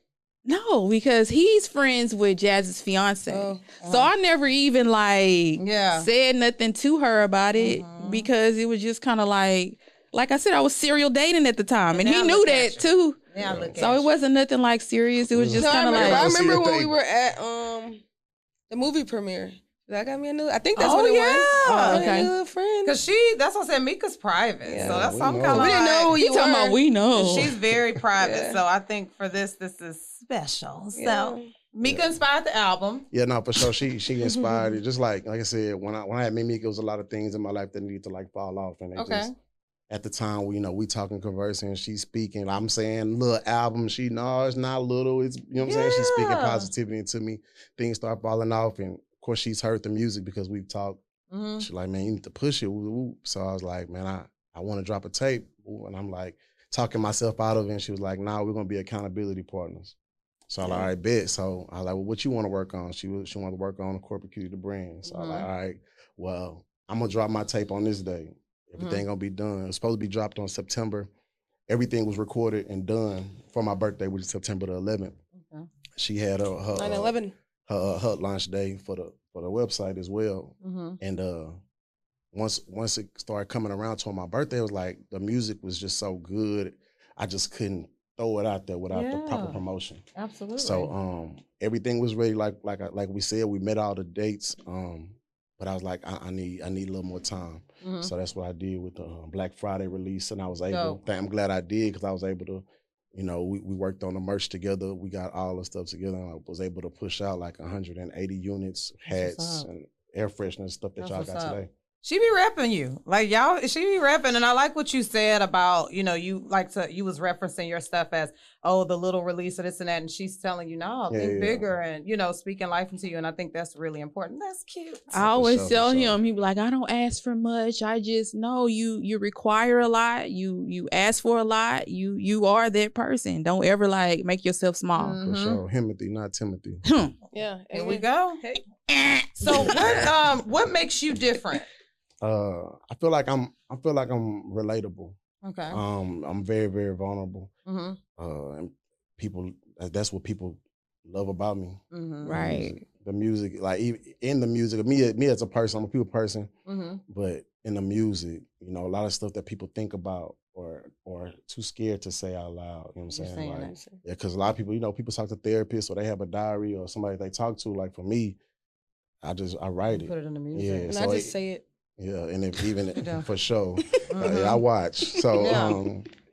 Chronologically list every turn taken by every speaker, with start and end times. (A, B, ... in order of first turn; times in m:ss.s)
0:00.4-0:13.2 A
0:03.3-0:03.6 B
0:03.8-0:04.1 C
0:05.6-0:06.1 C
0:07.6-0:08.3 C
0:11.9-0:14.1 C
0:13.4-0:13.8 D
0:13.8-0:16.3 A
0:15.3-0:16.9 D
0:15.6-0:18.0 B
0:18.7-0:23.0 B
0:20.8-0:22.1 C
0:21.6-0:22.3 A
0:22.8-0:26.1 C
0:24.6-0:26.8 B
0:24.8-0:25.7 D
0:25.5-0:27.5 A
0:27.1-0:33.0 C
0:28.2-0:28.6 B
0:30.9-0:31.5 B
0:31.8-0:32.1 D
0:33.1-0:39.3 D
0:39.0-0:39.3 C
0:39.9-0:51.0 D
0:45.6-0:46.7 C
0:51.3-0:51.6 C
0:51.6-0:59.9 D
1:00.5-1:11.1 D
1:05.0-1:05.5 C
1:08.8-1:09.0 C
1:11.7-1:15.2 D
1:15.4-1:15.7 C
1:16.0-1:17.2 D
1:16.7-1:17.3 B
1:17.7-1:21.6 D
1:20.6-1:21.0 C
1:22.3-1:30.0 D
1:28.9-1:29.6 C
1:30.2-1:30.9 C
1:30.6-1:51.7 D
1:37.8-1:38.1 C
1:40.7-1:41.0 C
1:49.1-1:49.6 C
1:51.0-2:05.2 C
2:01.1-2:01.6 D
2:05.1-2:06.2 D
2:05.1-2:15.2 A
2:15.0-2:15.6 C
2:15.2-2:16.8 D
2:16.8-2:17.1 A
2:17.3-2:18.6 B
2:17.7-2:18.4 C
2:18.9-2:19.8 A
2:19.4-2:21.6 C
2:19.5-2:20.1 D
2:22.2-2:25.2 D
2:25.4-2:25.8 C
2:25.7-2:27.5 D
2:27.6-2:28.0 C
2:28.2-2:36.5 D
2:31.9-2:32.6 C
2:32.2-2:32.8 A
2:36.6-2:37.0 C
2:37.1-2:48.4 D
2:43.1-2:43.7 C
2:43.6-2:44.0 B
2:49.2-2:51.3 D
2:49.9-2:50.9 C
2:50.9-2:51.6 B
2:52.0-2:56.1 D
2:53.0-2:53.3 C
2:54.1-2:54.6 C
2:55.1-2:55.7 B
2:55.4-2:55.8 C